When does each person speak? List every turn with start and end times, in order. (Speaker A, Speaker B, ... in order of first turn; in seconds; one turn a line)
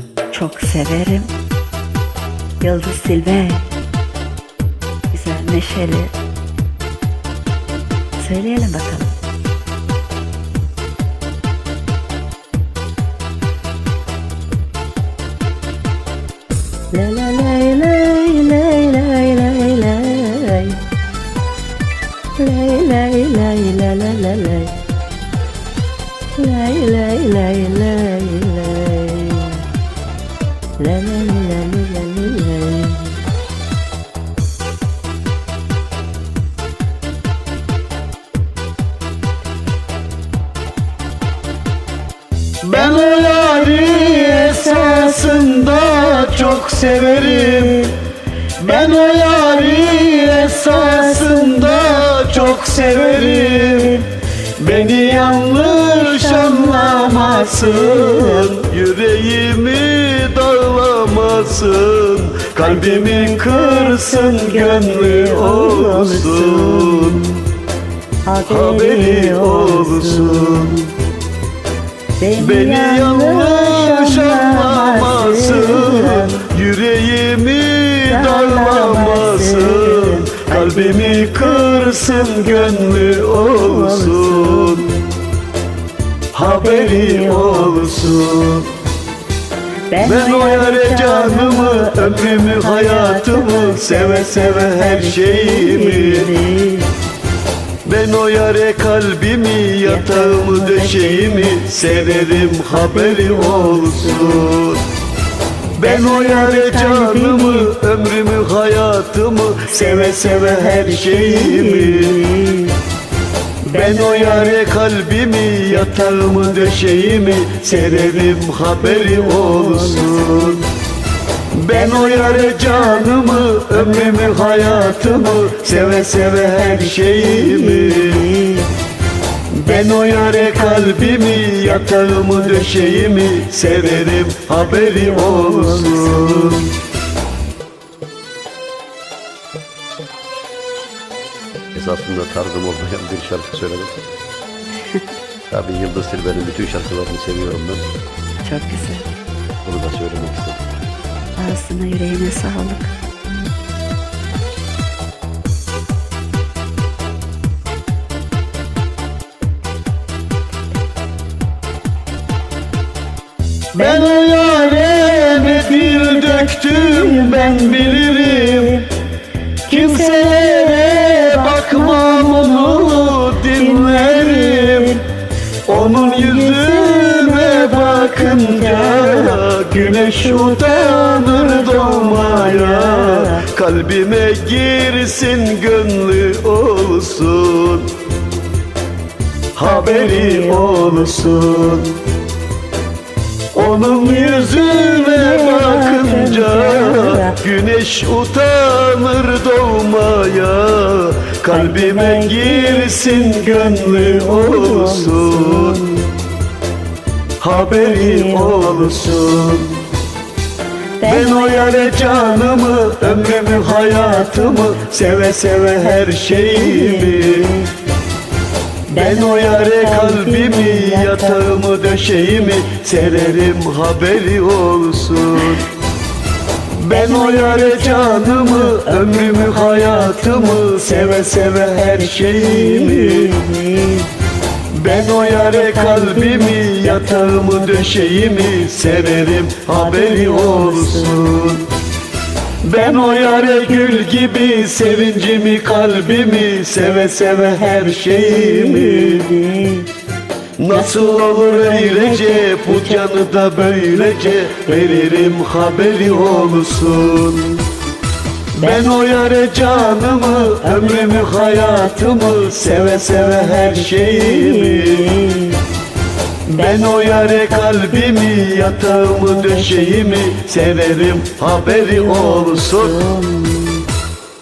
Speaker A: 0.3-1.3
Speaker A: 2.6-3.7
Speaker A: 5.1-6.1
Speaker A: 8.2-9.1
Speaker A: 16.9-20.8
Speaker A: 22.4-24.8
Speaker A: 26.4-29.7
Speaker A: 30.8-33.1
Speaker B: 42.6-47.9
Speaker A: 42.7-48.0
Speaker B: 48.6-54.0
Speaker A: 48.6-54.1
Speaker B: 54.6-67.3
Speaker A: 54.8-58.5
Speaker A: 62.6-67.3
Speaker A: 68.2-70.9
Speaker B: 68.5-70.8
Speaker A: 72.2-76.5
Speaker B: 72.4-84.9
Speaker A: 78.0-85.0
Speaker B: 86.3-88.7
Speaker A: 86.4-88.3
Speaker A: 89.9-96.9
Speaker B: 90.0-96.3
Speaker B: 97.8-104.8
Speaker A: 99.8-104.5
Speaker B: 105.8-112.2
Speaker A: 105.8-107.7
Speaker A: 109.7-112.8
Speaker B: 113.7-120.6
Speaker A: 113.7-114.7
Speaker A: 115.7-116.6
Speaker A: 117.5-120.6
Speaker B: 121.5-128.3
Speaker A: 121.7-128.7
Speaker B: 129.5-136.7
Speaker A: 129.7-134.0
Speaker A: 134.6-136.7
Speaker C: 141.7-143.9
Speaker C: 145.5-147.9
Speaker A: 148.4-149.1
Speaker C: 149.6-150.6
Speaker A: 151.4-152.9
Speaker A: 163.7-168.9
Speaker B: 163.8-168.8
Speaker A: 169.7-175.0
Speaker B: 169.7-175.0
Speaker B: 175.7-187.9
Speaker A: 175.7-183.4
Speaker B: 189.6-191.9
Speaker A: 189.6-191.9
Speaker B: 193.5-205.8
Speaker A: 193.9-197.4
Speaker A: 201.5-206.1
Speaker B: 207.4-209.8
Speaker A: 207.5-209.6
Speaker A: 211.0-214.9
Speaker B: 211.0-217.5
Speaker A: 215.7-217.7
Speaker A: 218.9-221.7
Speaker B: 218.9-225.7
Speaker B: 226.8-233.3
Speaker A: 226.9-234.1
Speaker B: 234.7-241.7
Speaker A: 234.8-241.5
Speaker B: 242.6-249.3
Speaker A: 242.7-244.9
Speaker A: 247.0-249.9
Speaker B: 250.6-257.5
Speaker A: 250.7-257.5
Speaker B: 258.6-265.1
Speaker A: 258.6-258.9
Speaker A: 259.5-265.6
Speaker B: 266.5-273.0
Speaker A: 266.5-270.6
Speaker A: 271.6-273.9